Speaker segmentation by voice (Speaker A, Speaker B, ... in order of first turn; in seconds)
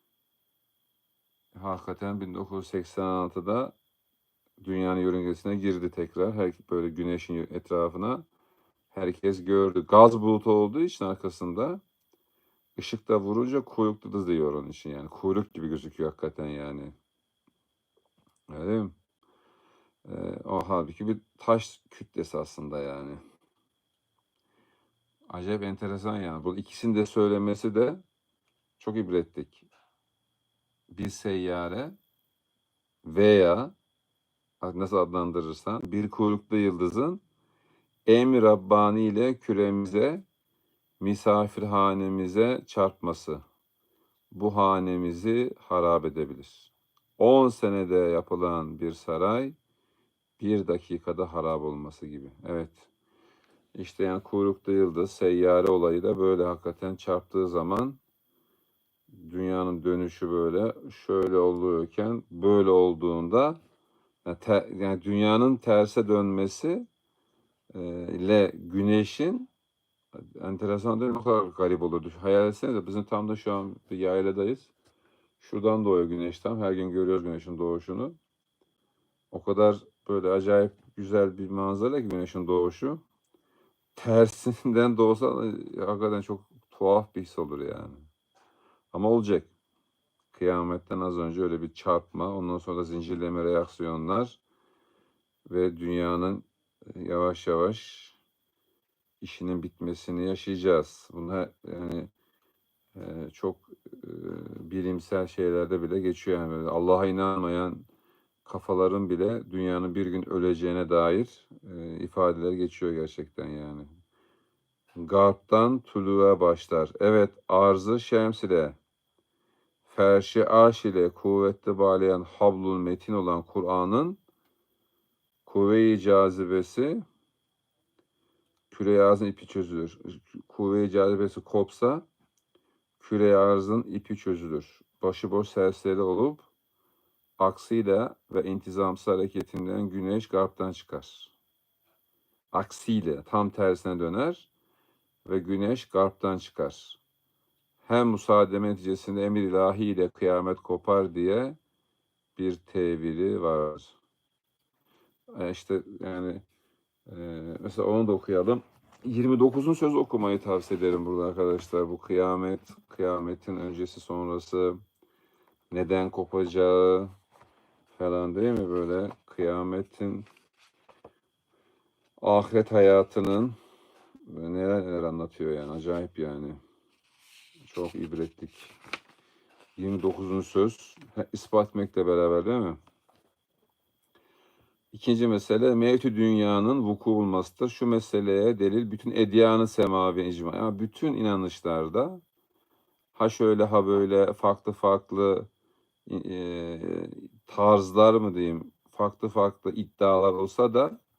Speaker A: 1.5-3.7, 4.6-8.2, 8.9-11.8, 12.8-16.9, 18.5-18.9, 20.0-23.2, 25.3-28.0, 28.8-29.7, 30.9-31.9, 33.0-33.7, 34.6-37.2, 38.1-40.2, 41.0-43.4, 44.3-49.5, 50.4-52.9, 53.7-58.0, 59.1-63.6, 64.2-66.9, 67.7-69.5, 70.1-74.7, 75.4-78.2, 79.3-83.0, 84.0-88.1, 88.9-89.5, 90.3-94.4, 95.5-98.2, 99.2-102.1, 102.9-107.8, 108.4-113.9, 115.0-118.8, 119.9-124.2, 125.4-127.0, 128.7-132.0, 133.0-136.5, 137.4-141.3, 142.5-144.5, 145.2-147.0, 147.8-151.6, 152.3-153.9, 155.3-156.4, 157.1-164.8, 165.7-167.1, 167.9-170.3, 172.2-173.6, 174.2-176.6, 177.6-178.7, 179.8-182.8, 184.9-192.2, 193.1-195.5, 196.1-201.0